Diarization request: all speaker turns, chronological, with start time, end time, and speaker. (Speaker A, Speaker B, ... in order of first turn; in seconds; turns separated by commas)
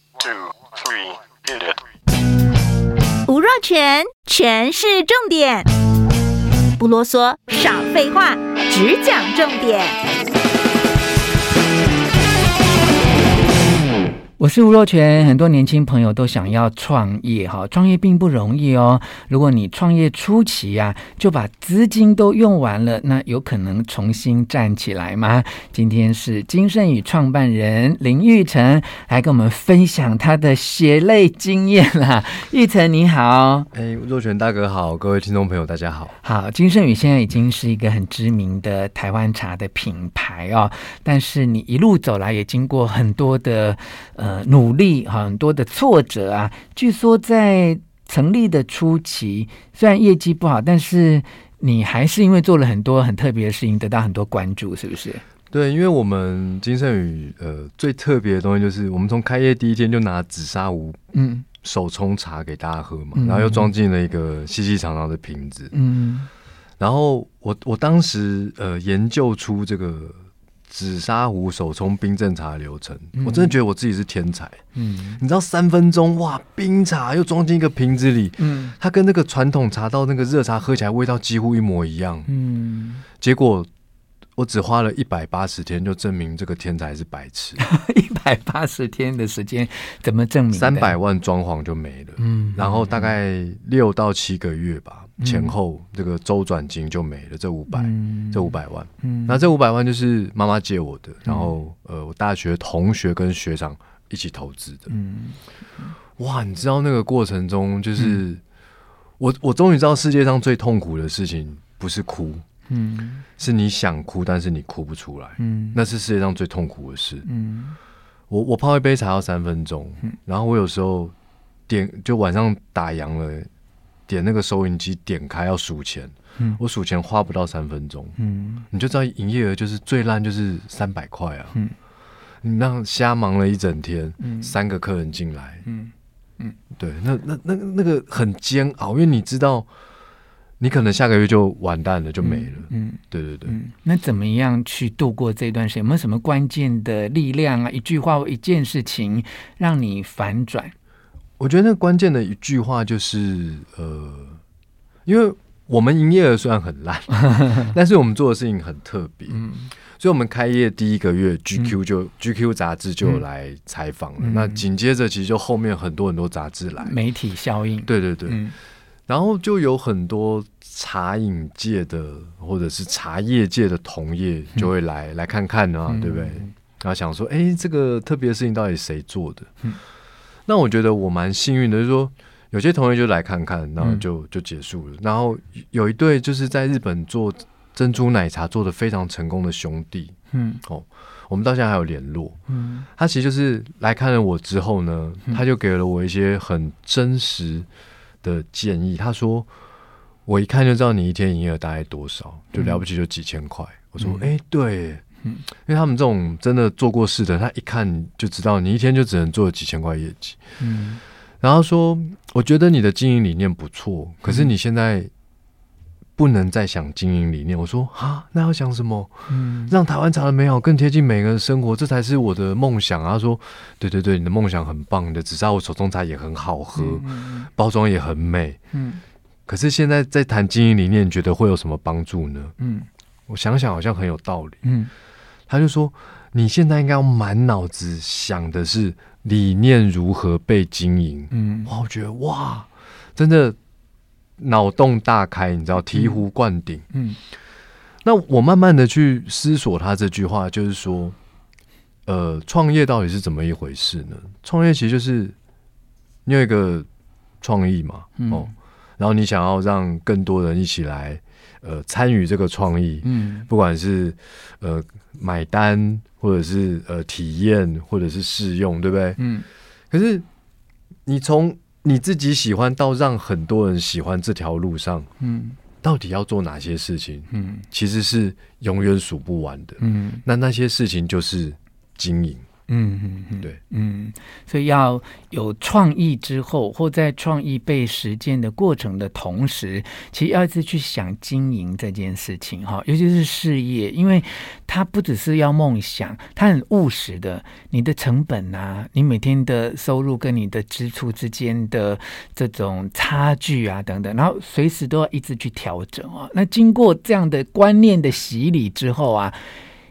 Speaker A: 3.3-5.7, Speaker A: 6.8-10.0, Speaker B: 14.4-33.7, Speaker C: 33.7-36.2, Speaker B: 36.2-55.2, Speaker C: 55.5-61.0, Speaker B: 61.1-61.5, Speaker C: 61.6-65.7, Speaker B: 63.1-63.7, Speaker B: 65.7-66.3, Speaker C: 66.8-70.2, Speaker C: 70.7-74.6, Speaker B: 73.2-73.6, Speaker B: 74.8-75.2, Speaker C: 75.2-82.3, Speaker B: 78.4-78.8, Speaker B: 82.3-83.0, Speaker C: 83.2-83.7, Speaker C: 84.4-87.6, Speaker B: 87.6-91.0, Speaker C: 90.5-104.9, Speaker B: 92.2-93.1, Speaker B: 95.2-95.6, Speaker B: 97.7-99.4, Speaker B: 101.2-101.5, Speaker B: 104.9-105.9, Speaker C: 106.2-108.4, Speaker C: 109.2-112.4, Speaker B: 112.7-113.2, Speaker C: 113.4-117.3, Speaker B: 115.4-115.8, Speaker B: 117.2-117.8, Speaker C: 118.3-121.1, Speaker C: 121.7-123.5, Speaker C: 124.1-128.2, Speaker B: 128.2-128.7, Speaker C: 128.7-131.6, Speaker C: 132.4-135.7, Speaker B: 134.2-134.5, Speaker B: 135.7-136.6, Speaker C: 136.8-139.7, Speaker C: 140.6-143.6, Speaker B: 142.2-150.7, Speaker C: 151.4-154.4, Speaker C: 155.1-159.4, Speaker B: 157.3-157.6, Speaker B: 159.3-159.7, Speaker C: 160.0-167.0, Speaker B: 164.2-164.6, Speaker B: 166.8-168.6, Speaker C: 167.9-168.4, Speaker C: 169.1-179.5, Speaker B: 175.9-176.5, Speaker C: 180.5-192.4, Speaker B: 183.8-184.1, Speaker B: 190.3-190.6, Speaker B: 192.5-192.9, Speaker C: 193.0-197.7, Speaker C: 198.2-199.5, Speaker C: 200.3-205.0, Speaker B: 202.5-202.8, Speaker B: 204.0-204.3, Speaker C: 205.7-210.4, Speaker B: 210.6-211.0, Speaker C: 211.4-215.1, Speaker B: 214.2-214.5, Speaker C: 216.2-228.6, Speaker B: 219.3-219.7, Speaker B: 226.8-227.5, Speaker B: 228.7-229.0, Speaker C: 229.5-232.5, Speaker B: 232.6-232.9, Speaker C: 233.3-234.6, Speaker B: 234.6-234.9, Speaker C: 235.5-243.6, Speaker B: 241.3-241.7, Speaker C: 244.4-246.8, Speaker B: 245.9-246.2, Speaker B: 246.9-247.2, Speaker C: 248.1-251.2, Speaker C: 252.1-255.3, Speaker C: 256.2-256.9, Speaker C: 257.4-269.2, Speaker B: 258.2-258.5, Speaker B: 263.0-263.5, Speaker B: 269.2-269.5, Speaker C: 269.9-270.2, Speaker C: 271.1-275.1, Speaker B: 275.2-275.6, Speaker C: 275.8-282.5, Speaker B: 277.3-277.6, Speaker B: 279.8-280.2, Speaker B: 282.7-309.4